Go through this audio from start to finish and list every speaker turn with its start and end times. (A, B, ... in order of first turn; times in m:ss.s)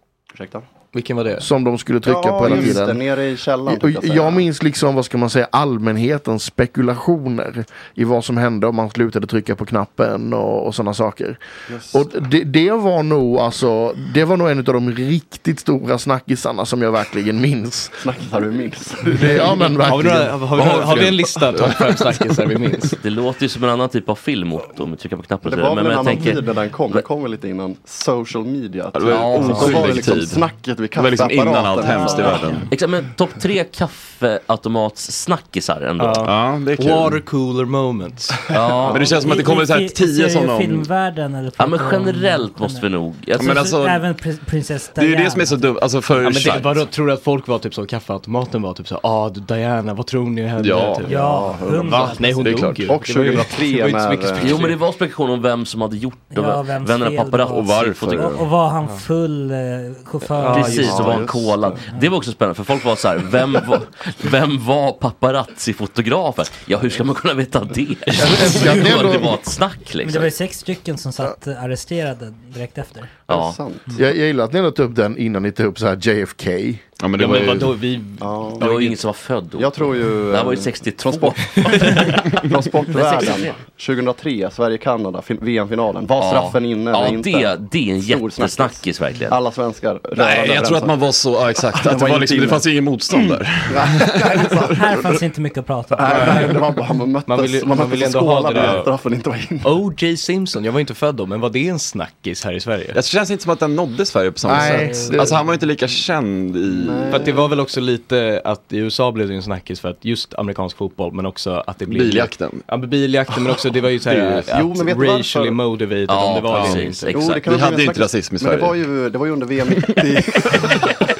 0:00.3-0:00.7 A
0:00.9-0:01.5 B
0:01.4-0:03.0 C
0:02.0-0:04.4 A
0:03.7-0:11.4 C
0:11.7-0:12.0 A
0:11.9-0:18.0 C
0:18.0-0:19.4 A
0:19.1-0:20.3 C
0:19.8-0:22.9 B
0:20.5-0:22.4 D
0:23.0-0:27.0 E
0:25.4-0:32.3 A
0:28.9-0:32.7 D
0:29.0-0:30.2 E
0:31.8-0:32.6 F
0:32.7-0:36.3 E
0:36.0-0:38.6 B
0:36.2-0:37.2 D
0:38.5-0:39.2 E
0:38.9-0:40.9 D
0:39.2-0:45.7 F
0:41.6-0:43.6 E
0:43.4-0:44.0 D
0:45.0-0:46.8 D
0:46.1-0:54.8 B
0:50.6-0:51.0 D
0:51.0-0:52.3 F
0:51.1-0:54.7 A
0:52.2-0:52.9 D
0:54.4-0:58.4 E
0:56.3-1:00.9 F
0:57.5-0:58.4 D
1:00.4-1:01.3 B
1:00.4-1:10.3 E
1:00.8-1:01.8 A
1:08.2-1:09.3 C
1:10.0-1:13.1 F
1:13.3-1:13.6 E
1:13.3-1:13.9 A
1:13.9-1:16.8 C
1:17.0-1:17.8 D
1:17.2-1:19.0 B
1:18.2-1:18.7 A
1:18.6-1:22.3 E
1:19.6-1:31.0 A
1:21.7-1:22.0 B
1:22.9-1:23.6 E
1:26.2-1:29.4 E
1:30.1-1:34.7 D
1:31.7-1:34.9 A
1:34.7-1:36.5 F
1:35.9-1:39.7 A
1:36.1-1:36.5 D
1:37.2-1:38.9 B
1:38.5-1:38.8 D
1:39.6-1:43.0 B
1:42.9-1:47.3 D
1:44.4-1:45.4 C
1:44.5-1:45.1 B
1:46.6-1:47.5 A
1:47.1-1:57.3 B
1:51.9-1:52.7 D
1:54.0-1:54.5 D
1:54.5-1:55.6 A
1:56.0-1:57.6 E
1:56.5-1:56.9 D
1:57.0-2:00.8 A
1:57.4-1:58.8 D